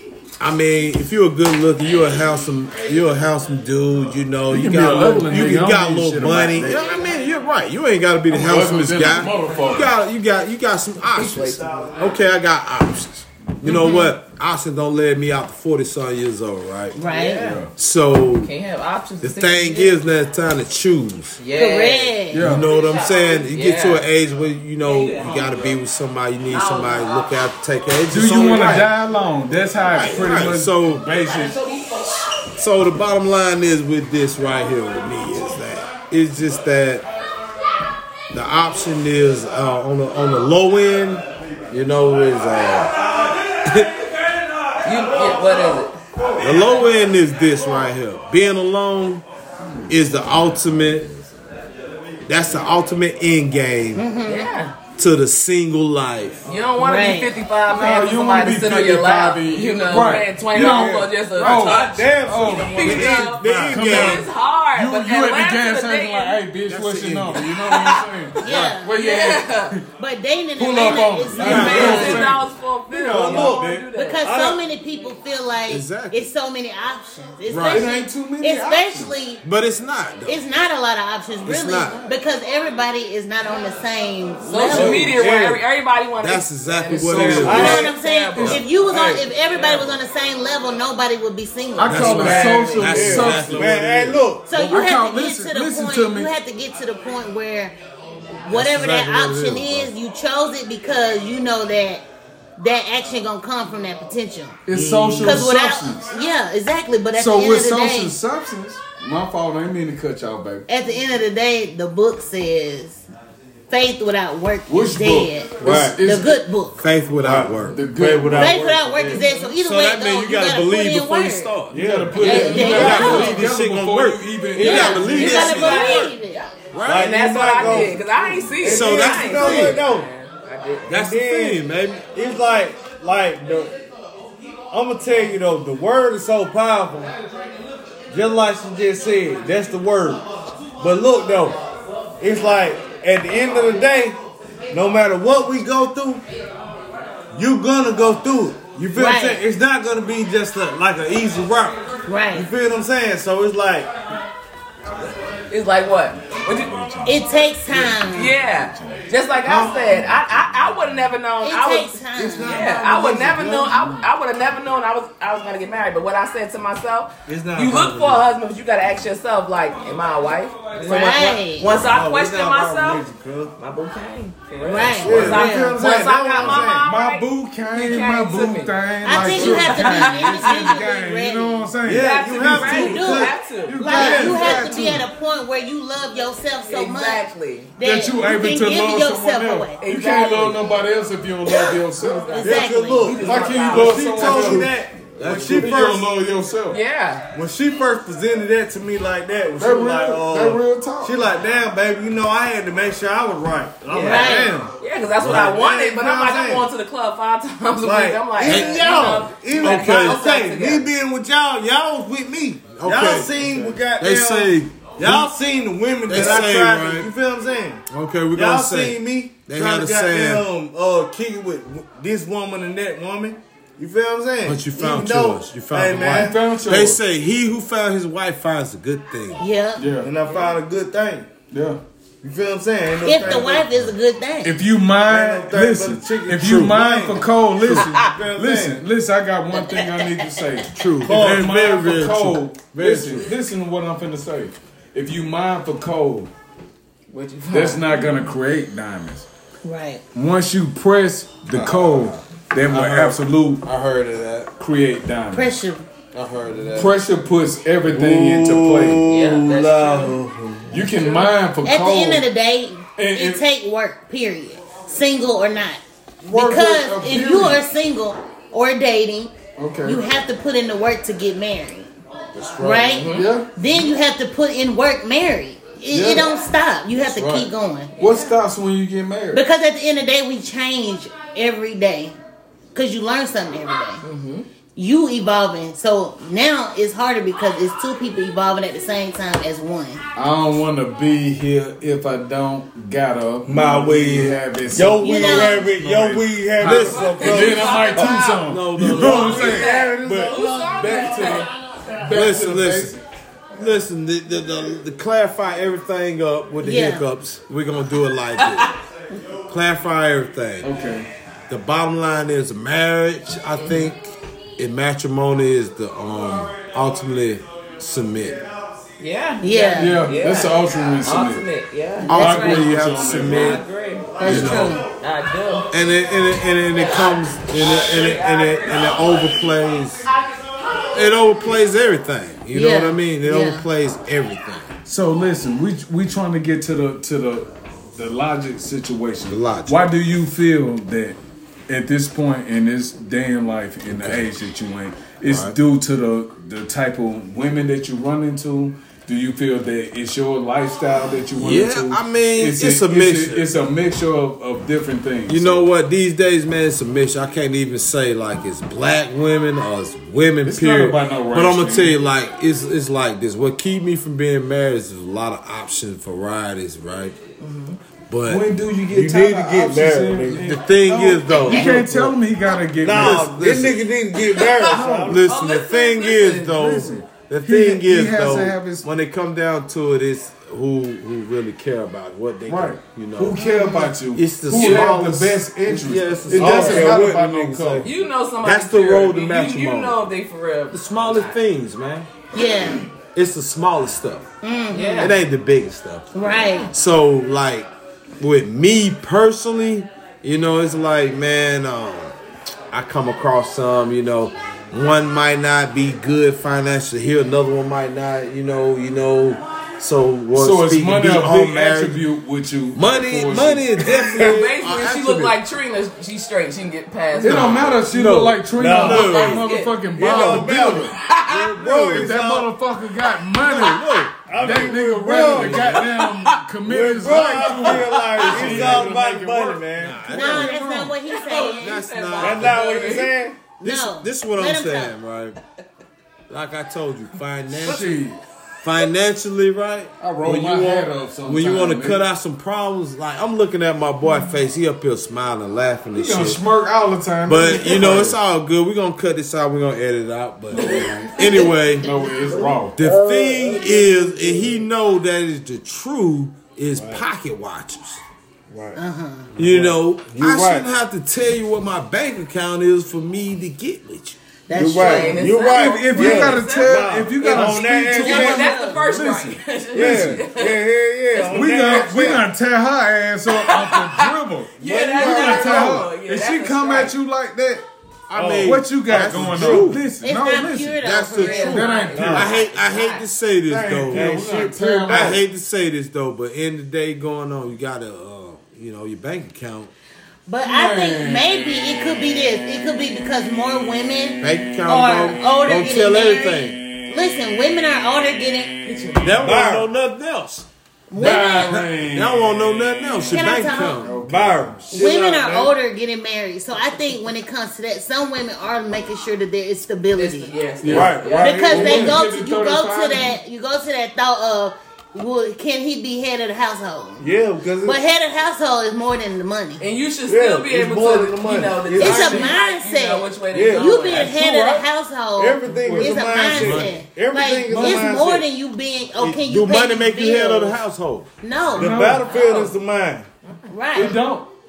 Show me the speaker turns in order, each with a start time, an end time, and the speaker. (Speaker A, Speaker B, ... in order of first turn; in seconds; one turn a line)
Speaker A: 0.4-17.0
Speaker B: 4.5-6.8
Speaker B: 8.3-9.9
Speaker C: 11.1-11.9
Speaker D: 13.6-14.1
Speaker D: 16.9-17.5
Speaker C: 17.1-17.6
Speaker B: 17.4-17.7
Speaker A: 17.8-18.5
Speaker C: 18.4-20.0
Speaker A: 19.2-21.4
Speaker C: 21.4-24.1
Speaker D: 21.6-22.5
Speaker B: 22.3-22.7
Speaker A: 22.3-28.9
Speaker C: 24.8-25.8
Speaker C: 26.5-27.2
Speaker B: 28.1-31.6
Speaker A: 29.9-31.1
Speaker C: 31.2-32.3
Speaker A: 32.6-37.1
Speaker A: 38.3-43.9
Speaker C: 44.8-46.0
Speaker A: 46.4-49.2
Speaker B: 49.7-49.9
Speaker A: 49.9-51.1
Speaker A: 52.3-54.0
Speaker D: 54.0-54.5
Speaker C: 54.3-54.8
Speaker A: 55.0-56.5
Speaker C: 56.5-66.4
Speaker D: 56.8-57.3
Speaker B: 57.7-69.8
Speaker E: 61.4-64.2
Speaker A: 63.0-64.3
Speaker A: 66.7-67.4
Speaker C: 67.4-68.1
Speaker D: 68.4-69.0
Speaker C: 69.0-69.7
Speaker D: 70.0-72.2
Speaker B: 70.6-72.5
Speaker C: 71.4-74.2
Speaker A: 71.4-72.3
Speaker E: 71.6-72.2
Speaker E: 72.9-73.7
Speaker B: 73.1-73.9
Speaker D: 73.9-79.4
Speaker E: 74.2-74.6
Speaker A: 75.7-76.2
Speaker A: 77.5-77.9
Speaker B: 77.7-79.2
Speaker A: 79.4-80.4
Speaker D: 80.3-85.1
Speaker A: 81.5-82.1
Speaker C: 84.5-89.9
Speaker B: 84.7-85.2
Speaker E: 84.7-85.6
Speaker A: 86.2-87.9
Speaker B: 86.9-88.6
Speaker E: 87.4-87.9
Speaker D: 87.4-92.3
Speaker B: 91.8-93.8
Speaker A: 91.8-94.2
Speaker E: 92.1-94.5
Speaker C: 92.3-92.8
Speaker D: 94.5-97.8
Speaker B: 94.5-96.3
Speaker D: 98.5-102.0
Speaker A: 98.5-99.9
Speaker D: 102.6-104.6
Speaker B: 104.7-106.1
Speaker E: 104.7-105.5
Speaker D: 105.2-108.2
Speaker B: 107.1-110.7
Speaker D: 110.7-113.0
Speaker D: 113.7-116.8
Speaker B: 114.7-116.4
Speaker E: 115.6-116.0
Speaker A: 116.8-117.8
Speaker E: 117.2-119.2
Speaker B: 117.7-119.2
Speaker D: 118.3-121.5
Speaker C: 119.1-119.5
Speaker A: 119.5-126.2
Speaker B: 121.7-125.7
Speaker E: 121.7-123.4
Speaker D: 122.2-123.4
Speaker C: 122.8-123.2
Speaker D: 124.6-126.4
Speaker E: 124.6-125.2
Speaker C: 125.1-130.9
Speaker A: 126.7-127.2
Speaker E: 126.8-130.1
Speaker A: 128.6-129.8
Speaker A: 130.9-132.1
Speaker E: 130.9-133.7
Speaker E: 134.7-137.1
Speaker E: 138.1-140.2
Speaker E: 140.8-141.6
Speaker E: 142.2-144.2
Speaker E: 144.7-146.2
Speaker E: 147.3-151.8
Speaker D: 148.9-149.4
Speaker D: 152.1-152.5
Speaker E: 152.3-153.9
Speaker C: 155.5-156.8
Speaker B: 156.5-159.1
Speaker D: 157.1-158.4
Speaker C: 158.1-173.0
Speaker E: 159.4-160.1
Speaker D: 161.4-162.6
Speaker E: 162.2-164.0
Speaker E: 167.3-168.2
Speaker D: 170.8-171.7
Speaker E: 170.9-173.5
Speaker C: 173.6-180.8
Speaker D: 174.6-175.8
Speaker E: 175.0-176.8
Speaker B: 176.4-182.8
Speaker D: 179.0-181.7
Speaker E: 181.8-184.8
Speaker C: 182.0-184.7
Speaker D: 182.6-187.2
Speaker B: 183.7-185.1
Speaker C: 186.7-187.7
Speaker D: 187.8-189.8
Speaker B: 187.8-192.4
Speaker C: 189.8-190.7
Speaker C: 191.7-194.7
Speaker D: 192.3-193.2
Speaker E: 192.4-196.1
Speaker B: 193.2-196.8
Speaker A: 195.2-195.9
Speaker C: 196.7-197.3
Speaker E: 197.3-206.7
Speaker B: 199.6-201.2
Speaker C: 203.9-210.9
Speaker D: 204.0-204.5
Speaker A: 205.2-205.5
Speaker E: 207.8-226.4
Speaker A: 208.4-208.9
Speaker A: 209.6-210.2
Speaker A: 212.8-215.3
Speaker A: 216.1-217.1
Speaker A: 217.9-220.5
Speaker A: 224.4-229.4
Speaker B: 226.1-227.0
Speaker D: 229.4-229.9
Speaker B: 229.8-230.1
Speaker E: 230.0-231.3
Speaker C: 230.3-230.5
Speaker B: 231.5-231.8
Speaker E: 232.2-233.7
Speaker D: 233.0-234.6
Speaker B: 234.4-246.3
Speaker E: 235.1-238.8
Speaker C: 237.8-238.0
Speaker A: 240.8-243.3
Speaker E: 241.0-241.8
Speaker C: 247.1-248.0
Speaker B: 247.5-249.3
Speaker D: 249.6-250.0
Speaker B: 250.2-253.6
Speaker A: 251.5-254.5
Speaker B: 254.6-255.5
Speaker D: 255.3-255.8
Speaker A: 256.1-256.9
Speaker B: 256.8-259.1
Speaker E: 257.9-261.1
Speaker C: 259.1-260.2
Speaker B: 260.7-262.3
Speaker D: 261.6-265.8
Speaker B: 263.0-263.4
Speaker B: 266.2-267.6
Speaker D: 266.3-271.9
Speaker B: 269.6-270.0
Speaker B: 272.4-273.5
Speaker D: 272.6-277.9
Speaker C: 272.9-273.3
Speaker B: 275.9-276.3
Speaker B: 277.0-279.4
Speaker C: 278.0-278.3
Speaker D: 279.3-282.2
Speaker D: 282.7-284.0
Speaker C: 284.0-284.5
Speaker D: 284.8-290.0
Speaker B: 290.2-301.5
Speaker E: 293.4-301.4
Speaker D: 295.0-295.6
Speaker A: 296.6-297.1
Speaker C: 296.8-298.4
Speaker A: 298.4-299.7
Speaker C: 299.0-301.5
Speaker B: 302.0-303.0
Speaker A: 302.1-303.0
Speaker A: 303.5-308.7
Speaker D: 306.6-307.1
Speaker C: 308.4-308.7
Speaker A: 309.5-310.7
Speaker B: 310.6-311.1
Speaker A: 311.5-318.5
Speaker C: 319.0-322.1
Speaker D: 319.4-320.0
Speaker B: 319.8-321.5
Speaker D: 322.1-322.7
Speaker A: 322.1-323.6
Speaker B: 322.1-323.6
Speaker C: 323.1-325.7
Speaker D: 324.2-324.9
Speaker A: 324.2-324.8
Speaker B: 324.2-324.7
Speaker A: 325.7-330.1
Speaker C: 326.8-329.3
Speaker A: 330.9-334.8
Speaker D: 332.5-333.7
Speaker B: 334.9-341.2
Speaker A: 339.3-339.8
Speaker B: 341.7-355.7
Speaker A: 343.9-344.3
Speaker A: 345.2-345.6
Speaker A: 351.4-353.4
Speaker A: 355.3-367.2
Speaker B: 360.4-362.0
Speaker C: 367.4-367.8
Speaker A: 368.1-368.6
Speaker B: 368.3-373.7
Speaker E: 368.9-370.5
Speaker A: 370.3-372.2
Speaker E: 371.5-371.9
Speaker E: 372.8-375.2
Speaker A: 372.9-373.8
Speaker C: 374.2-376.6
Speaker B: 374.6-375.2
Speaker A: 375.1-383.4
Speaker B: 376.5-378.9
Speaker B: 382.5-387.9
Speaker D: 383.4-383.9
Speaker A: 384.1-387.9
Speaker C: 384.5-384.9
Speaker E: 386.3-387.2
Speaker C: 387.8-391.3
Speaker A: 388.4-390.0
Speaker A: 390.7-392.1
Speaker D: 392.3-392.8
Speaker A: 393.1-394.3
Speaker D: 394.4-395.1
Speaker C: 394.7-395.1
Speaker A: 395.0-396.1
Speaker D: 396.1-396.7
Speaker A: 396.7-397.7
Speaker A: 398.2-402.1
Speaker A: 402.7-412.0
Speaker B: 410.4-413.8
Speaker A: 412.7-415.4
Speaker E: 413.8-414.4
Speaker C: 414.1-417.8
Speaker B: 417.2-421.0
Speaker A: 417.2-419.4
Speaker E: 417.3-417.6
Speaker E: 418.6-419.4
Speaker C: 418.7-421.6
Speaker E: 419.9-422.5
Speaker B: 421.6-431.0
Speaker A: 423.5-425.8
Speaker E: 423.6-425.9
Speaker C: 425.8-426.4
Speaker E: 426.6-430.1
Speaker C: 427.1-428.6
Speaker A: 428.3-428.9
Speaker A: 429.8-430.6
Speaker D: 430.1-431.8
Speaker C: 431.1-433.2
Speaker A: 431.5-432.8
Speaker E: 432.2-433.4
Speaker D: 433.6-434.9
Speaker A: 433.6-435.4
Speaker A: 436.3-438.0
Speaker B: 437.5-438.2
Speaker A: 438.6-446.4
Speaker B: 440.0-442.0
Speaker B: 445.9-448.2
Speaker A: 447.3-451.9
Speaker B: 450.5-452.8
Speaker C: 450.6-451.5
Speaker A: 452.8-458.0
Speaker E: 452.8-454.6
Speaker E: 456.8-457.0
Speaker E: 458.5-458.8
Speaker D: 458.8-459.3
Speaker E: 459.4-460.7
Speaker A: 459.4-464.2
Speaker D: 464.5-465.3
Speaker E: 464.5-468.5
Speaker C: 464.6-470.6
Speaker B: 465.5-470.2
Speaker D: 468.0-468.8
Speaker E: 469.7-472.3
Speaker C: 471.1-471.9
Speaker B: 471.3-477.6
Speaker C: 473.3-476.9
Speaker E: 474.6-475.9
Speaker A: 478.1-479.8
Speaker E: 478.1-479.8
Speaker B: 478.4-482.4
Speaker D: 480.0-481.9
Speaker A: 480.8-484.2
Speaker C: 481.1-483.1
Speaker E: 481.9-482.3
Speaker B: 483.5-485.2
Speaker E: 483.9-485.2
Speaker A: 484.9-489.7
Speaker D: 490.3-498.6
Speaker B: 490.4-492.8
Speaker A: 494.2-496.6
Speaker B: 494.3-495.5
Speaker B: 496.6-498.1
Speaker B: 498.6-499.2
Speaker C: 498.6-499.2
Speaker A: 499.0-500.5
Speaker E: 499.1-499.7
Speaker D: 500.9-501.6
Speaker B: 501.0-504.7
Speaker A: 501.0-504.0
Speaker D: 503.1-503.9
Speaker E: 503.9-505.5
Speaker D: 504.7-510.3
Speaker C: 509.9-511.5
Speaker B: 510.6-513.1
Speaker E: 510.7-512.0
Speaker D: 511.2-517.1
Speaker E: 517.0-517.8
Speaker D: 517.6-519.6
Speaker C: 519.6-524.6
Speaker E: 520.1-522.3
Speaker D: 521.8-530.6
Speaker E: 523.3-524.2
Speaker E: 525.2-528.3
Speaker A: 526.2-526.8
Speaker B: 527.5-527.9
Speaker A: 529.0-531.1
Speaker D: 531.2-531.8
Speaker B: 531.6-532.1
Speaker E: 531.6-533.1
Speaker C: 532.0-532.5
Speaker C: 533.3-533.9
Speaker D: 533.5-534.0
Speaker B: 533.7-534.3